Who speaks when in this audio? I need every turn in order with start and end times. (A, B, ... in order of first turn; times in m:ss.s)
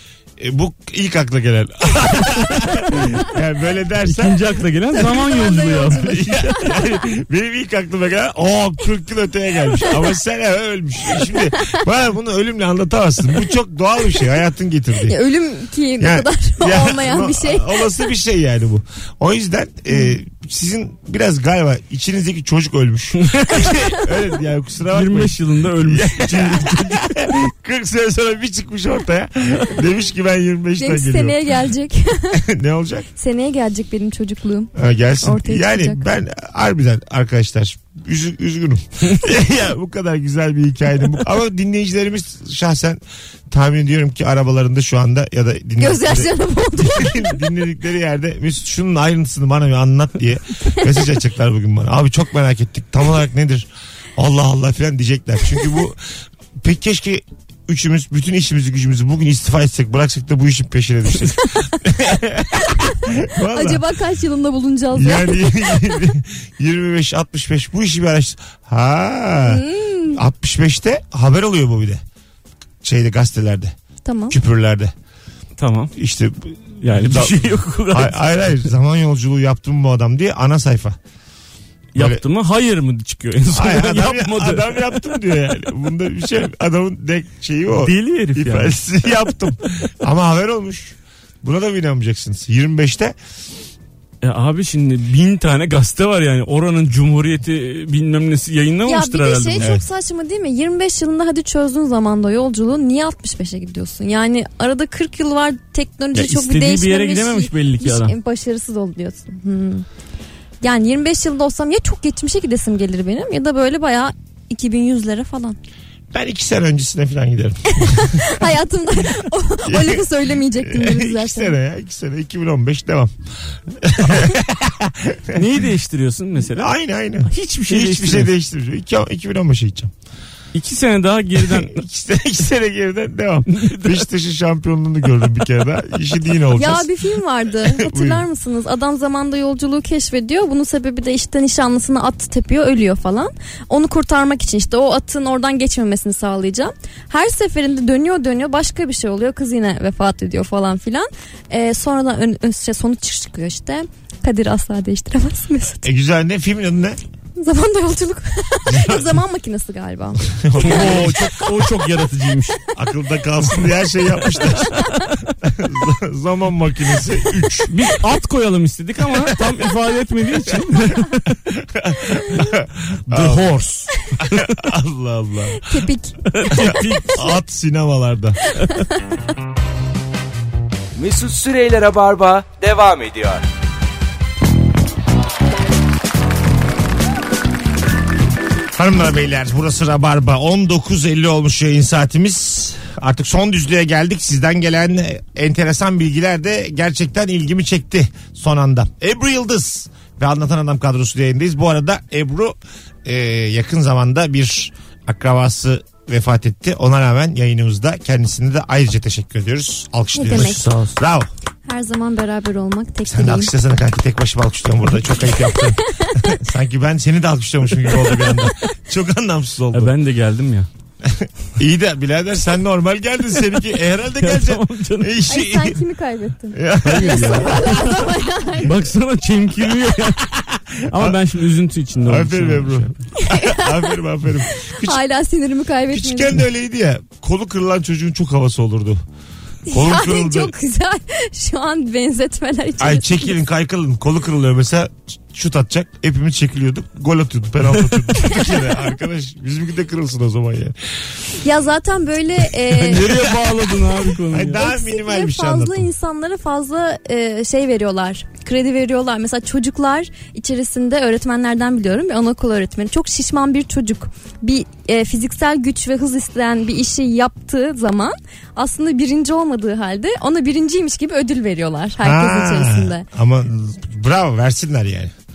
0:00.4-0:04.4 A
0:04.0-0:06.7 B
0:04.9-0:06.6 C
0:06.0-0:15.2 A
0:15.0-0:17.8 C
0:16.0-0:31.5 A
0:23.2-0:23.8 B
0:24.9-0:27.2 B
0:30.8-0:32.4 C
0:32.3-0:33.1 A
0:33.2-0:36.0 C
0:34.7-0:56.0 A
0:45.8-0:47.4 C
0:56.6-1:03.8 A
1:01.4-1:01.7 C
1:02.7-1:06.0 C
1:04.9-1:12.0 A
1:09.4-1:10.2 C
1:12.8-1:13.7 A
1:14.0-1:14.4 C
1:14.3-1:14.9 A
1:15.6-1:15.9 B
1:16.0-1:21.0 A
1:16.8-1:18.5 B
1:21.9-1:25.0 B
1:22.0-1:22.2 A
1:23.5-1:33.2 A
1:27.7-1:28.8 B
1:34.2-1:39.7 B
1:38.9-1:49.9 C
1:39.6-1:39.8 A
1:46.1-1:48.1 B
1:50.6-1:55.6 C
1:56.1-1:58.4 A
1:57.7-2:01.6 C
1:59.6-2:03.1 A
2:03.7-2:05.5 A
2:05.3-2:06.7 B
2:06.6-2:09.9 A
2:07.3-2:08.3 B
2:10.5-2:11.8 B
2:11.4-2:16.9 A
2:13.5-2:14.1 B
2:16.5-2:35.9 C
2:17.6-2:18.2 A
2:35.8-2:37.0 A
2:37.4-2:40.2 C
2:38.7-2:39.1 A
2:40.2-2:41.6 A
2:40.6-2:42.6 B
2:42.7-2:44.8 A
2:44.4-2:45.3 B
2:45.4-2:47.8 A
2:47.7-2:51.4 B
2:49.1-2:49.7 A
2:50.5-2:50.7 A
2:51.4-2:53.5 A
2:53.1-2:54.6 B
2:54.2-2:55.8 A
2:55.5-2:56.8 C
2:56.3-2:57.3 B
2:56.5-2:58.4 A
2:58.4-2:59.0 C
3:01.0-3:03.4 D
3:08.7-3:31.3 A
3:30.1-3:30.7 C
3:30.3-3:30.9 B
3:31.6-3:33.5 C
3:33.1-3:39.9 A
3:35.4-3:36.2 C
3:39.7-3:40.7 B
3:41.0-3:45.8 A
3:44.2-3:45.2 B
3:45.3-3:48.8 C
3:46.5-3:48.0 A
3:46.8-3:50.3 B
3:49.7-3:51.2 A
3:50.9-3:52.9 B
3:52.0-3:55.0 A
3:53.2-3:56.4 C
3:55.9-3:59.0 A
3:59.7-4:03.4 C
3:59.7-4:00.5 A
4:02.8-4:10.8 A
4:11.4-4:13.2 C
4:12.6-4:14.6 B
4:14.3-4:15.9 A
4:14.5-4:33.0 C
4:32.0-4:35.1 A